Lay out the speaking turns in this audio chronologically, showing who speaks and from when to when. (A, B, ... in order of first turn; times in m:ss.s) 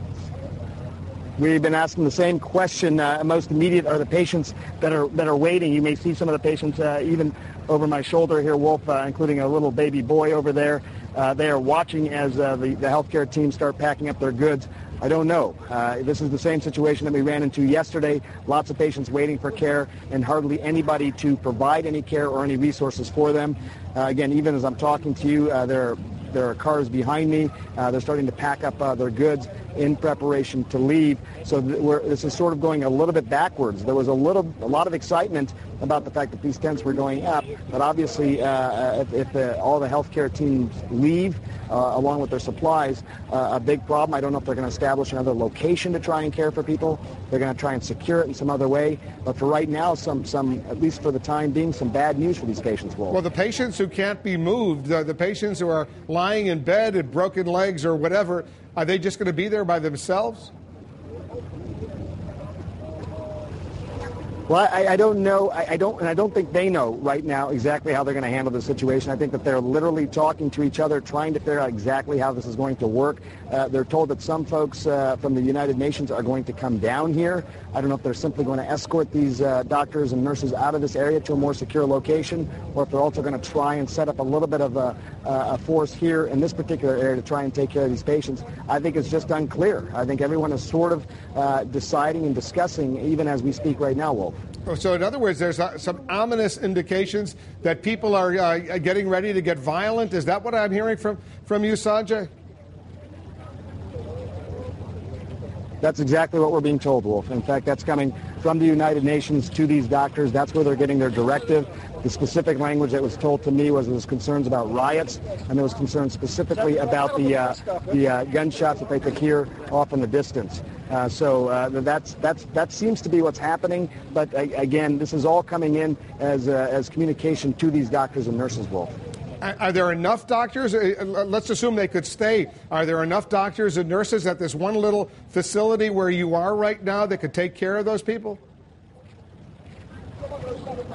0:01.4-0:53.2 A
0:53.1-1:00.5 B
1:04.5-1:34.4 A
1:34.7-1:42.3 B
1:45.8-2:08.9 A
2:09.4-2:18.4 B